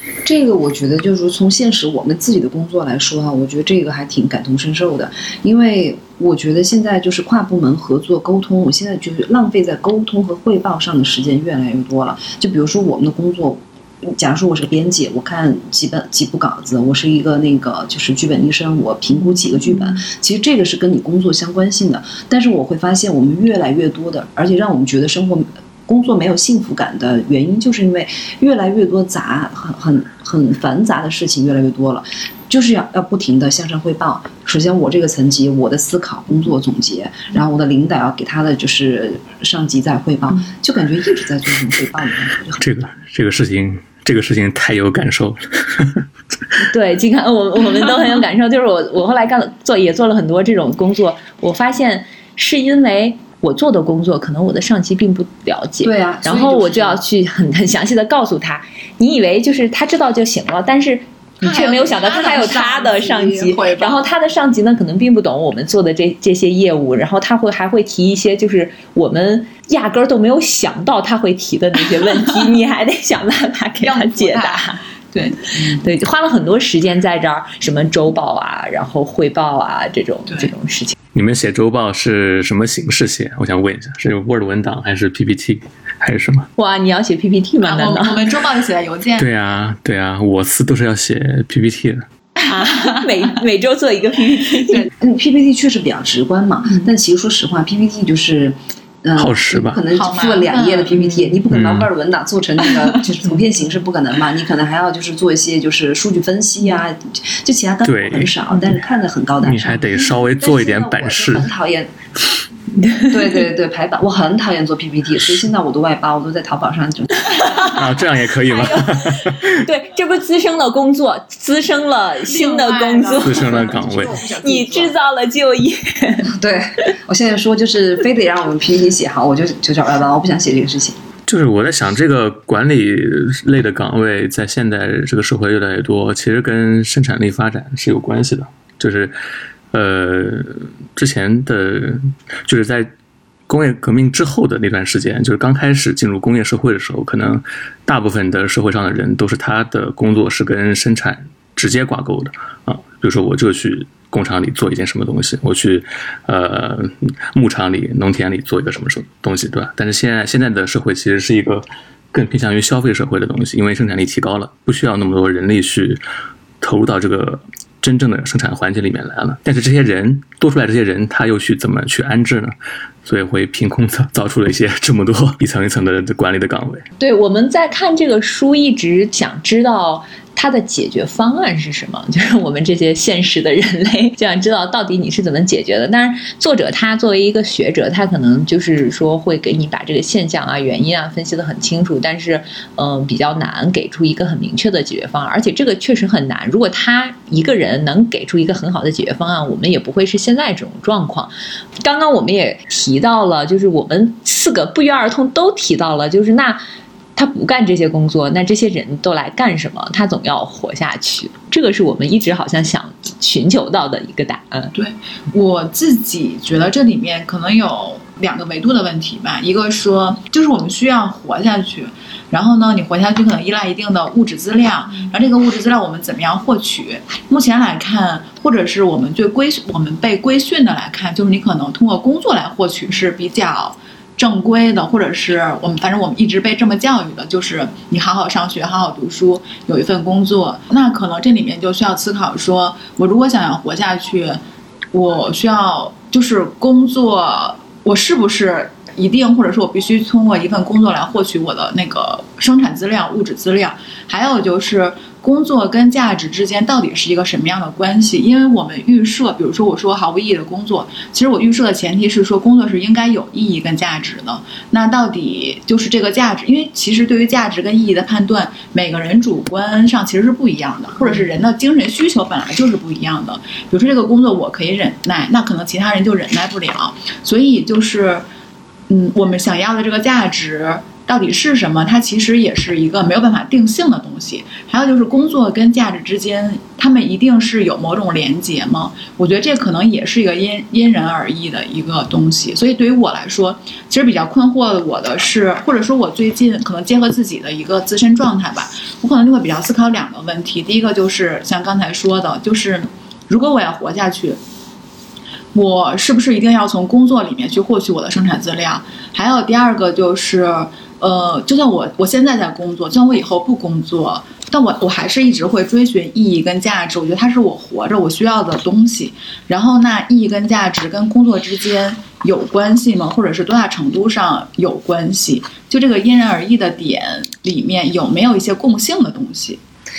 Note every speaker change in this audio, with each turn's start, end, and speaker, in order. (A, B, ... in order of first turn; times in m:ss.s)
0:00.2-0:42.6 A
0:42.6-0:46.0 B
0:46.6-1:14.8 C
0:55.8-0:57.0 A
1:01.4-1:04.1 D
1:13.8-1:15.8 D
1:15.5-1:21.0 C
1:20.3-1:20.5 D
1:21.1-1:26.5 B
1:26.6-1:28.3 C
1:27.6-1:29.2 D
1:29.2-1:32.0 B
1:32.5-1:33.1 D
1:32.5-1:34.9 C
1:35.0-1:52.1 A
1:39.2-1:39.8 B
1:39.9-1:41.1 D
1:41.5-1:41.9 B
1:47.8-1:48.4 B
1:49.4-1:51.5 B
1:52.8-1:53.1 C
1:53.0-1:57.7 A
1:57.3-1:57.8 C
1:57.6-1:59.5 B
1:58.4-2:03.7 C
2:02.3-2:03.7 D
2:03.2-2:04.2 B
2:03.3-2:04.9 A
2:04.3-2:06.3 C
2:06.2-2:11.0 A
2:11.3-2:19.1 B
2:19.7-2:22.9 B
2:23.5-2:46.0 B
2:46.6-2:52.5 B
2:53.0-2:56.8 B
2:57.0-3:26.6 C
3:27.2-3:34.7 C
3:34.7-4:04.4 D
4:04.9-4:38.2 D
4:38.9-5:04.4 D
5:05.5-5:29.6 D